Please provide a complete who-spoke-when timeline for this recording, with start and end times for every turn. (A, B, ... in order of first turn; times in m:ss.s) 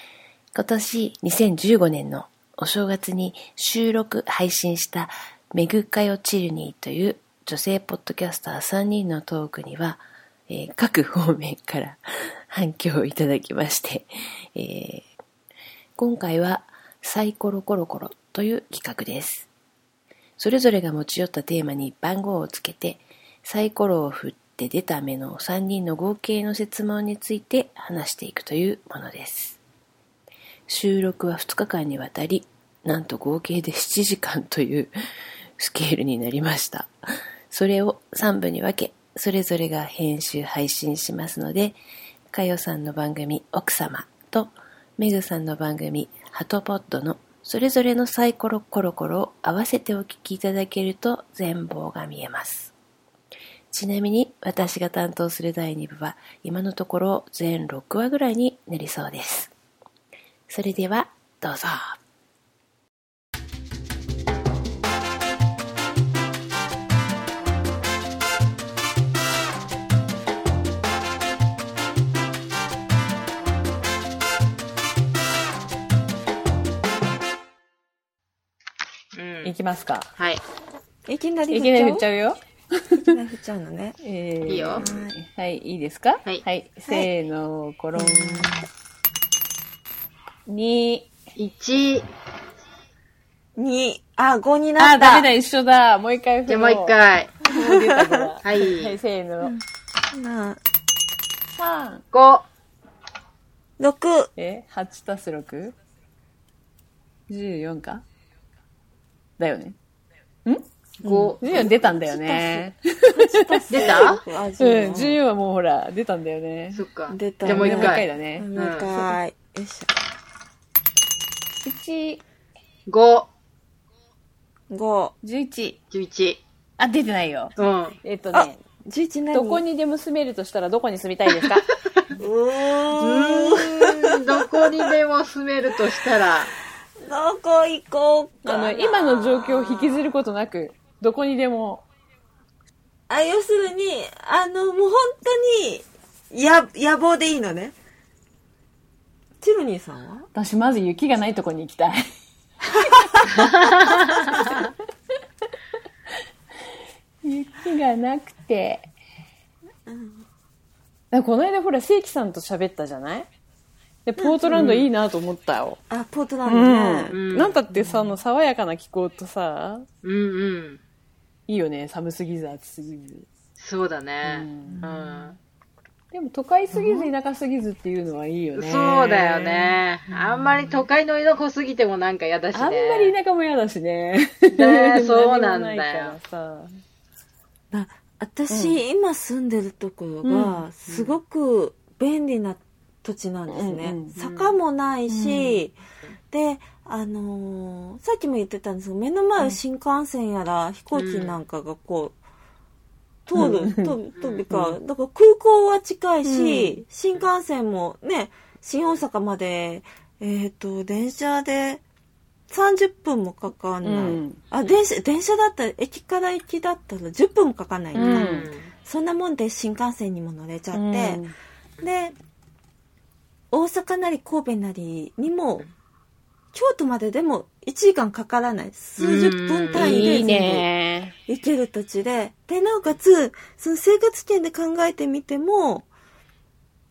0:00.5-0:15.1 A
0:16.0-0:19.5 A
0:20.4-0:29.6 A
0:30.7-0:34.9 A
0:35.6-0:36.9 A
0:37.5-0:41.8 A
0:42.3-0:52.7 A
0:53.7-0:59.5 A
1:00.5-1:02.0 A
1:19.1-1:19.5 B
1:19.4-1:20.1 C
1:20.2-1:20.4 B
1:21.0-1:22.1 D
1:21.5-1:22.4 C
1:23.0-1:24.0 D
1:24.0-1:28.5 C
1:24.5-1:24.8 B
1:24.8-1:25.2 D
1:27.9-1:28.6 D
1:30.4-1:31.1 C
1:31.4-1:32.1 B
1:33.6-1:35.3 D
1:34.8-1:39.5 C
1:36.5-1:37.4 B
1:37.7-1:38.3 D
1:38.4-1:39.0 B
1:39.4-1:40.6 D
1:41.6-1:42.0 C
1:42.1-1:42.4 B
1:43.8-1:44.3 D
1:44.4-1:45.7 C
1:47.3-1:48.0 C
1:49.4-1:49.8 C
1:51.0-1:51.7 B
1:51.0-1:55.2 D
1:51.4-1:56.8 C
1:53.7-1:54.2 B
1:56.7-1:59.1 B
1:57.1-1:59.9 D
1:57.4-1:58.5 C
2:01.6-2:02.2 C
2:02.9-2:03.3 B
2:04.7-2:05.1 D
2:05.2-2:05.8 C
2:05.9-2:06.4 B
2:06.8-2:08.6 C
2:07.6-2:08.0 B
2:08.3-2:09.6 D
2:09.3-2:11.6 C
2:12.2-2:14.0 D
2:13.0-2:16.5 B
2:17.0-2:20.1 D
2:18.4-2:21.8 C
2:23.1-2:27.7 D
2:29.4-2:30.3 D
2:30.3-2:32.0 C
2:33.4-2:34.2 B
2:37.2-2:38.9 C
2:39.8-2:40.3 D
2:41.1-2:43.3 C
2:44.0-2:45.8 C
2:44.2-2:44.8 D
2:45.9-2:47.2 D
2:46.4-2:49.9 C
2:47.1-2:47.6 B
2:47.7-2:48.2 D
2:50.0-2:50.8 B
2:51.5-2:53.3 C
2:53.6-2:55.4 B
2:54.2-2:54.8 C
2:54.6-2:55.4 D
2:56.1-2:59.6 C
2:56.7-2:57.1 D
2:58.6-3:03.2 B
3:00.1-3:00.8 D
3:02.5-3:06.7 C
3:04.5-3:06.2 B
3:07.7-3:15.8 D
3:08.5-3:08.8 C
3:10.2-3:10.6 C
3:10.9-3:11.2 B
3:13.5-3:14.1 C
3:14.1-3:14.5 B
3:15.1-3:15.6 C
3:16.3-3:22.2 D
3:20.9-3:21.4 B
3:23.2-3:31.8 D
3:23.3-3:24.0 C
3:24.2-3:24.4 B
3:24.5-3:24.8 C
3:26.2-3:26.8 C
3:32.5-3:41.2 D
3:33.8-3:34.4 C
3:37.9-3:38.5 C
3:37.9-3:38.7 B
3:40.7-3:41.3 C
3:41.8-3:42.1 D
3:43.5-3:45.6 D
3:46.5-3:50.7 D
3:49.0-3:50.0 B
3:49.7-3:51.1 C
3:51.3-3:55.9 D